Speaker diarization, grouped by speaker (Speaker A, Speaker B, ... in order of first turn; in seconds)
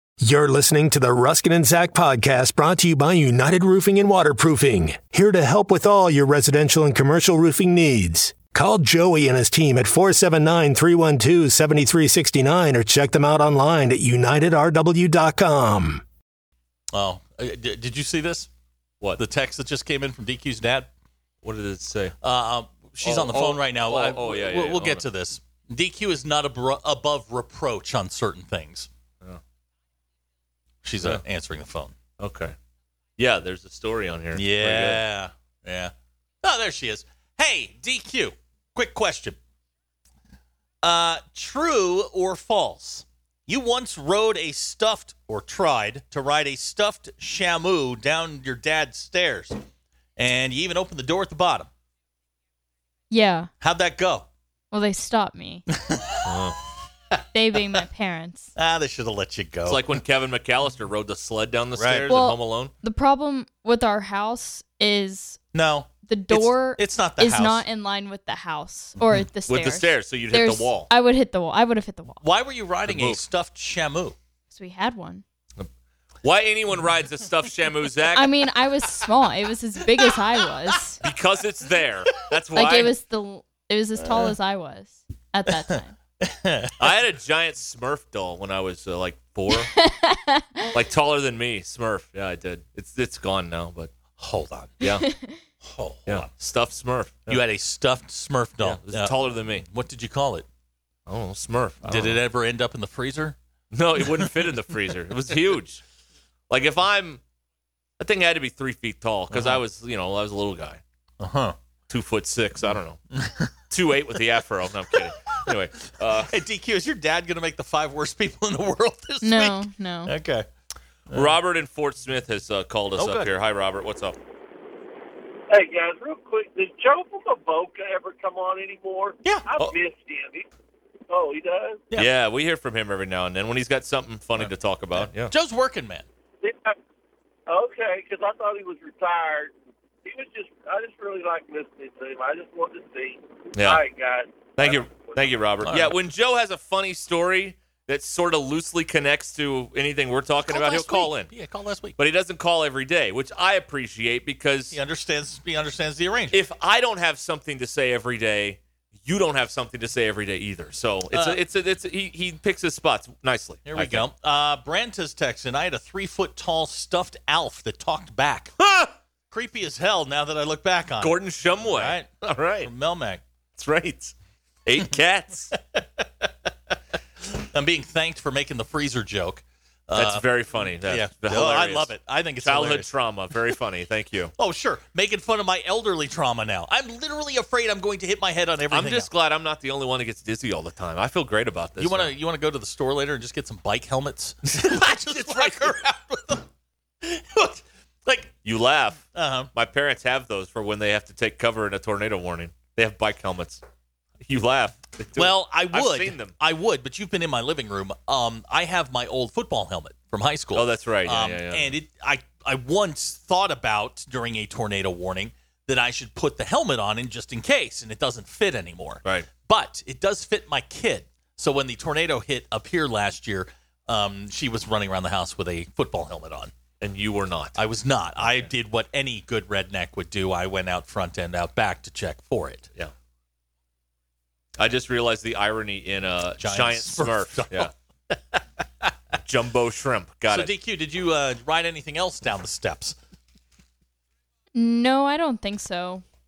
Speaker A: 0.2-16.0
Speaker B: 16.9-18.5, 19.2-20.9, 22.2-28.9, 30.8-31.9, 34.3-39.4, 40.8-49.6, 50.2-51.7, 53.6-54.3, 55.7-56.5, 58.5-60.0, 61.8-62.1, 65.5-67.6, 69.0-69.2, 72.2-74.2, 84.0-84.3, 85.5-86.9, 94.2-94.8, 95.6-96.3, 97.3-100.5, 101.8-103.4, 104.0-104.5, 109.3-109.6, 111.2-111.6, 112.7-113.5, 114.9-115.5, 116.2-120.5, 121.1-121.4, 123.0-123.3, 129.2-129.5, 134.4-136.1, 145.6-145.9, 150.5-152.0, 154.7-156.4, 161.1-161.4, 163.7-168.5, 169.3-172.1, 172.6-173.2, 175.5-182.9, 184.4-189.1, 191.8-196.5, 197.0-198.3, 199.1-199.5, 205.2-226.5, 227.5-232.7, 236.4-237.7, 240.3-242.9
Speaker C: 21.4-22.1, 23.0-25.1, 32.2-32.5, 33.2-35.0, 56.2-56.6, 59.6-62.7, 69.5-70.9, 72.9-73.2, 76.2-78.5, 81.0-82.9, 86.8-89.7, 90.7-93.9, 94.8-95.1, 96.1-97.4, 98.6-99.7, 101.1-102.2, 103.7-105.8, 106.5-107.2, 108.0-110.8, 111.9-113.0, 113.7-116.4, 121.1-124.2, 131.9-135.3, 143.6-143.8, 144.6-151.3, 152.0-154.8, 156.3-164.1, 168.6-168.9, 171.0-172.7, 173.6-174.1, 174.7-175.5, 179.9-184.3, 188.7-192.1, 194.5-195.8, 198.4-203.6, 204.2-206.3, 210.5-211.7, 226.8-227.6, 234.6-237.7, 239.2-240.5
Speaker D: 53.1-53.5, 54.7-55.6, 57.3-58.5, 62.1-65.4, 66.0-72.2, 74.5-75.2, 78.1-81.0, 82.5-86.0, 89.5-90.7, 94.8-95.4, 119.2-120.1, 244.5-246.0
Speaker E: 125.5-130.5, 131.1-131.8, 136.4-136.8, 137.5-145.3